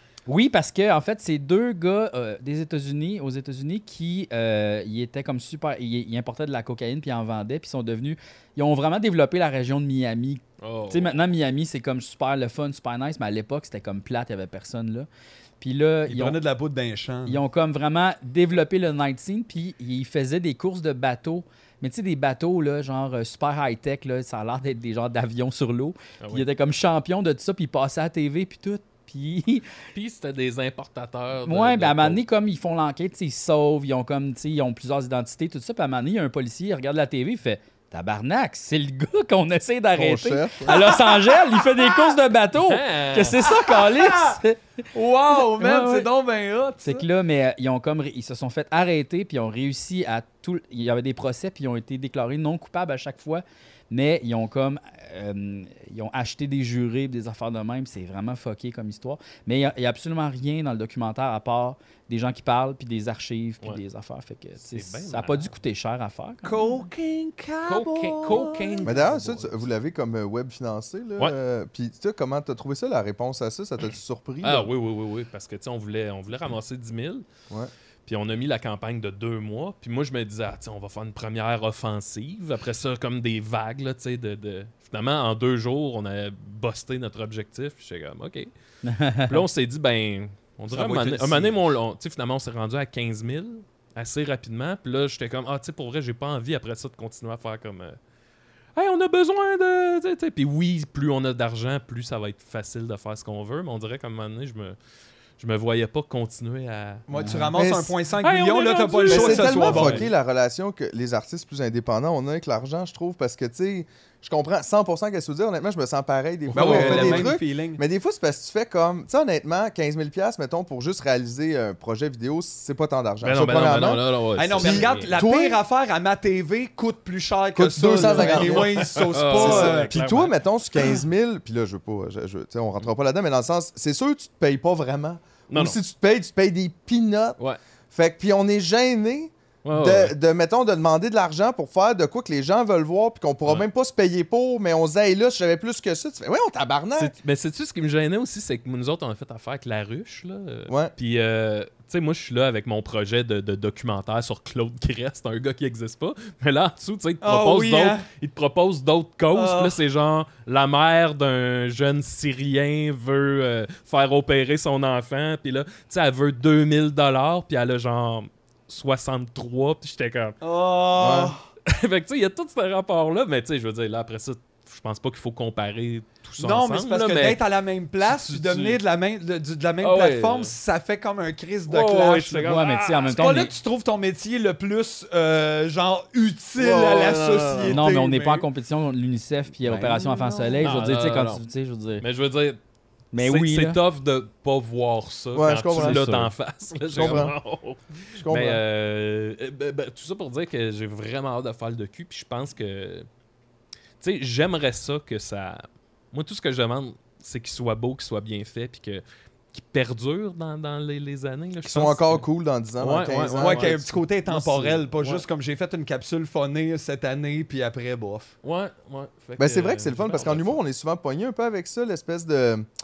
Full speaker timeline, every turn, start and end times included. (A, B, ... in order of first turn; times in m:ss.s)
0:00.3-0:15.1 A
0:10.6-0:11.3 B
0:15.6-0:16.4 A
0:16.1-0:17.4 C
0:17.3-0:29.6 A
0:30.0-0:32.2 B
0:31.5-0:44.6 A
0:40.0-0:40.8 D
0:40.7-0:42.2 C
0:42.7-0:43.4 B
0:43.4-0:44.4 C
0:44.9-0:47.0 C
0:45.5-0:46.1 A
0:46.8-1:06.6 A
1:04.6-1:05.5 B
1:06.4-1:09.0 C
1:07.6-1:09.6 B
1:08.8-1:14.7 D
1:14.4-1:17.2 B
1:18.1-1:28.5 B
1:28.8-1:29.4 A
1:29.3-1:38.0 B
1:30.7-1:31.6 C
1:38.8-1:44.8 B
1:45.4-1:47.1 B
1:47.1-1:50.1 C
1:47.5-1:48.0 D
1:48.2-1:50.1 B
1:49.1-2:05.6 D
1:56.5-1:57.3 B
1:56.5-1:57.8 C
2:03.2-2:05.2 B
2:04.4-2:09.9 C
2:07.6-2:17.4 D
2:08.0-2:10.4 B
2:15.5-2:15.8 B
2:17.9-2:27.2 D
2:19.6-2:20.2 B
2:27.0-2:50.4 B
2:30.7-2:30.9 D
2:37.2-2:38.0 C
2:39.3-2:39.8 C
2:50.4-2:51.4 C
2:51.0-2:51.4 D
2:51.7-2:57.4 B
2:56.4-3:02.6 C
2:58.0-2:58.8 B
2:59.8-3:00.6 B
3:01.7-3:03.4 B
3:02.4-3:03.5 A
3:03.1-3:08.5 C
3:06.6-3:07.4 D
3:06.7-3:07.8 B
3:07.7-3:12.0 A
3:09.7-3:10.6 C
3:10.6-3:11.4 B
3:12.0-3:12.6 B
3:13.1-3:13.8 A
3:13.2-3:23.1 B
3:15.3-3:16.3 D
3:15.8-3:16.3 A
3:16.9-3:17.4 D
3:18.2-3:18.6 D
3:24.0-3:32.3 B
3:31.6-3:33.9 D
3:32.8-3:35.2 B
3:33.4-3:38.3 C
3:38.4-3:40.6 B
3:39.4-3:42.7 D